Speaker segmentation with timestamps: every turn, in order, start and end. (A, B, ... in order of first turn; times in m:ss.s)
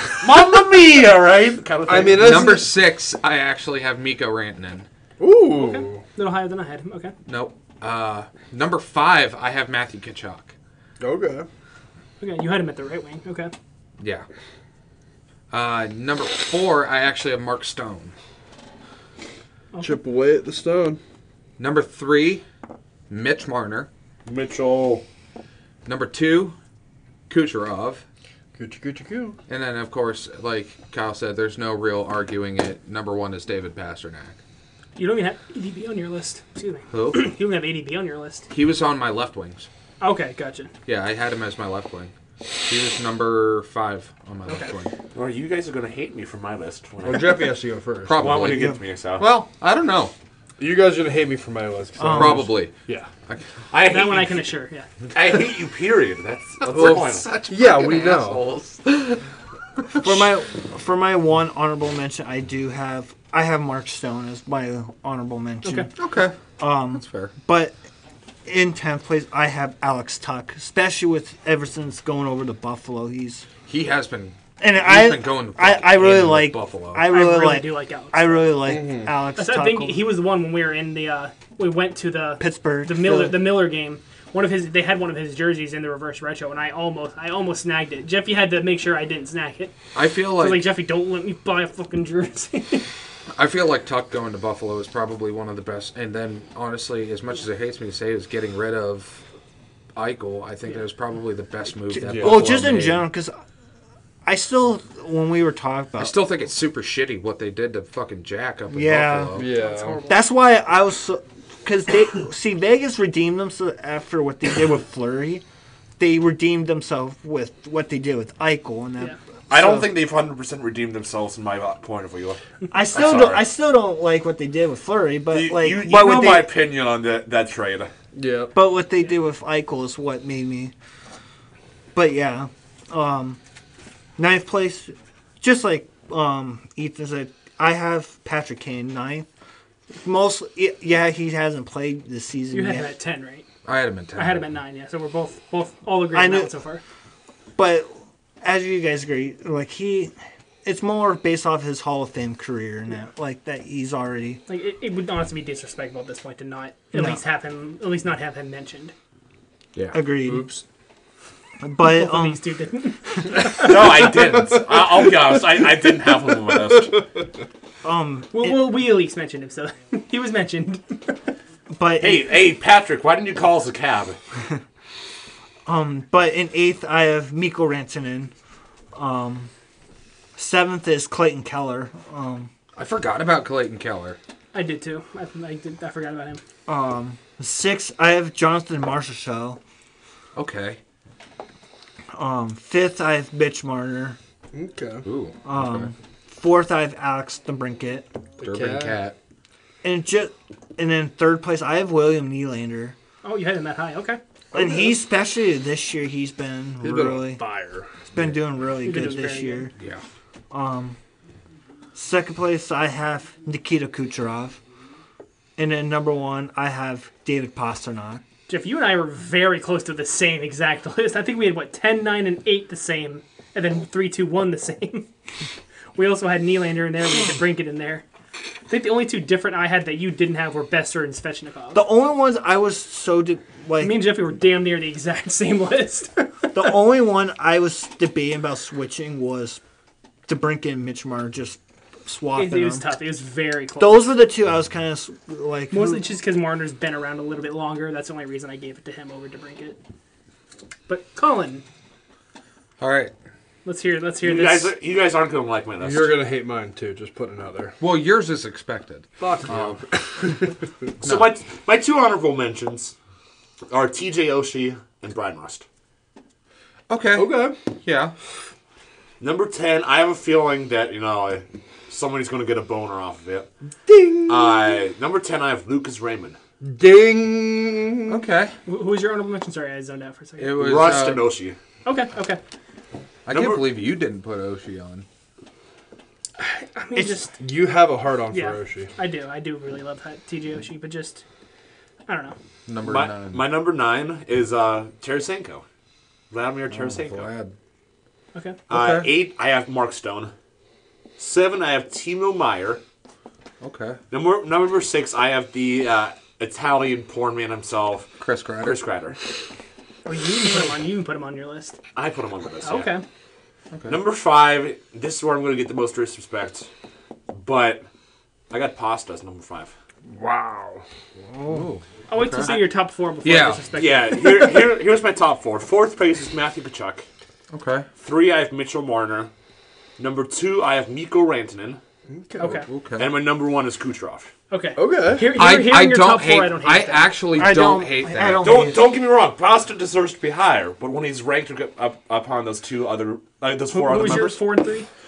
0:00.2-0:02.6 A
0:01.9-0:02.8 B
0:02.0-0:04.9 C
0:05.2-0:06.0 B
0:05.6-0:07.1 D
0:07.3-0:10.5 C
0:11.0-0:11.5 B
0:12.2-0:13.5 D
0:14.0-0:14.3 C
0:15.5-0:18.1 C
0:19.8-0:21.0 B
0:21.6-0:22.4 C
0:23.1-0:23.9 C
0:24.3-0:25.0 A
0:25.9-0:26.6 C
0:27.3-0:28.0 C
0:28.6-0:29.4 B
0:29.5-0:34.4 C
0:35.0-0:38.5 D
0:36.9-0:37.3 C
0:38.5-0:39.7 C
0:40.0-0:40.7 D
0:40.9-0:42.1 C
0:42.6-0:44.9 C
0:44.5-0:44.7 D
0:45.1-0:47.6 A
0:47.0-0:48.2 B
0:48.0-0:50.1 C
0:48.2-0:49.3 A
0:50.6-0:53.1 B
0:52.0-0:52.8 C
0:52.0-0:52.5 E
0:53.7-0:54.5 A
0:53.8-0:54.9 D
0:55.1-0:57.3 A
0:56.6-0:59.2 C
0:56.7-0:58.5 B
0:59.8-1:00.3 C
0:59.9-1:07.8 E
1:05.6-1:05.9 D
1:06.0-1:07.3 C
1:08.4-1:13.5 E
1:13.7-1:17.1 C
1:14.6-1:20.0 E
1:17.0-1:18.5 D
1:18.6-1:19.1 B
1:19.4-1:29.8 D
1:22.4-1:23.5 E
1:29.9-1:30.7 C
1:30.3-1:32.9 D
1:33.3-1:39.2 C
1:40.0-1:43.1 C
1:41.9-1:43.4 E
1:42.1-1:42.5 B
1:44.2-1:46.2 E
1:46.0-1:49.6 C
1:48.7-1:49.4 E
1:49.4-1:50.0 B
1:49.5-1:50.2 D
1:50.1-1:55.4 E
1:56.0-1:59.9 E
1:59.5-2:02.4 A
2:02.7-2:06.5 E
2:02.9-2:03.4 A
2:05.3-2:07.9 A
2:08.1-2:08.5 B
2:08.5-2:10.7 E
2:11.9-2:13.4 E
2:14.2-2:19.3 E
2:19.9-2:22.9 E
2:22.5-2:23.5 D
2:23.6-2:24.4 C
2:24.1-2:26.8 D
2:26.1-2:26.5 E
2:27.6-2:34.4 E
2:34.5-2:38.9 D
2:36.9-2:37.2 E
2:39.8-2:40.0 C
2:39.9-2:40.5 E
2:40.2-2:40.6 B
2:41.6-2:42.4 E
2:41.8-2:44.0 D
2:43.5-2:47.0 A
2:44.0-2:45.4 B
2:46.5-2:47.2 B
2:47.8-2:48.7 E
2:48.3-2:51.2 D
2:51.7-2:52.4 E
2:52.0-2:54.2 A
2:55.7-2:58.3 E
2:58.9-2:59.5 E
3:00.4-3:02.5 E
3:02.8-3:04.2 C
3:04.5-3:06.4 D
3:06.7-3:09.6 E
3:10.4-3:10.8 C
3:12.1-3:14.2 E
3:14.5-3:15.1 B
3:15.0-3:15.9 C
3:15.4-3:18.1 E
3:18.4-3:19.2 C
3:18.4-3:19.0 B
3:19.8-3:23.0 E
3:23.2-3:24.2 D
3:24.5-3:25.0 B
3:24.5-3:27.4 E
3:26.8-3:27.9 B
3:28.1-3:29.7 E
3:28.8-3:29.7 D
3:29.8-3:30.0 C
3:30.5-3:31.0 E
3:31.9-3:34.6 E
3:35.6-3:38.2 E
3:38.5-3:45.1 D
3:46.0-3:48.0 D
3:48.7-3:51.8 D
3:51.7-3:54.2 E
3:53.8-3:56.7 D
3:56.5-3:59.6 E
4:00.3-4:02.9 E
4:02.4-4:04.2 D
4:03.8-4:06.1 E
4:05.7-4:09.8 D
4:10.9-4:11.6 D
4:12.8-4:13.1 C
4:13.6-4:14.7 D
4:14.2-4:16.2 A
4:15.8-4:17.8 B
4:17.8-4:20.4 C
4:19.2-4:20.5 B
4:21.0-4:21.3 C
4:21.0-4:22.9 A
4:23.7-4:25.6 A
4:26.9-4:28.1 C
4:27.2-4:27.6 B
4:29.2-4:33.5 A
4:33.9-4:34.8 B
4:34.3-4:36.4 A
4:36.6-4:38.2 B
4:38.1-4:38.6 C
4:38.7-4:40.8 D
4:40.4-4:41.3 C
4:40.6-4:41.6 A
4:41.8-4:42.4 D
4:43.3-4:45.1 C
4:43.3-4:43.6 A
4:46.4-4:47.4 D
4:47.0-4:47.3 E
4:47.4-4:48.9 B
4:48.3-4:51.2 D
4:52.1-4:52.4 D
4:52.7-4:53.5 C
4:52.8-4:55.6 A
4:56.3-4:57.3 A
4:56.7-4:57.5 C
4:58.7-4:59.1 C
4:58.7-5:00.3 A
5:01.2-5:02.8 A
5:03.6-5:04.0 C
5:04.1-5:09.2 A
5:08.2-5:08.8 C
5:10.0-5:11.8 D
5:12.0-5:12.9 A
5:12.6-5:13.0 D
5:13.7-5:14.0 C
5:13.9-5:16.7 A
5:17.3-5:17.8 A
5:18.5-5:19.7 A
5:20.1-5:20.8 B
5:21.4-5:22.6 C
5:22.1-5:24.7 D
5:23.2-5:23.6 C
5:23.8-5:27.1 A
5:27.5-5:27.9 C
5:28.0-5:29.3 A
5:30.0-5:31.8 A
5:32.1-5:32.6 B
5:32.4-5:32.7 D
5:32.5-5:33.1 C
5:33.0-5:34.3 A
5:34.5-5:37.2 D
5:34.8-5:35.3 B
5:35.3-5:38.7 C
5:37.4-5:38.9 E
5:38.4-5:44.4 A
5:43.7-5:44.9 D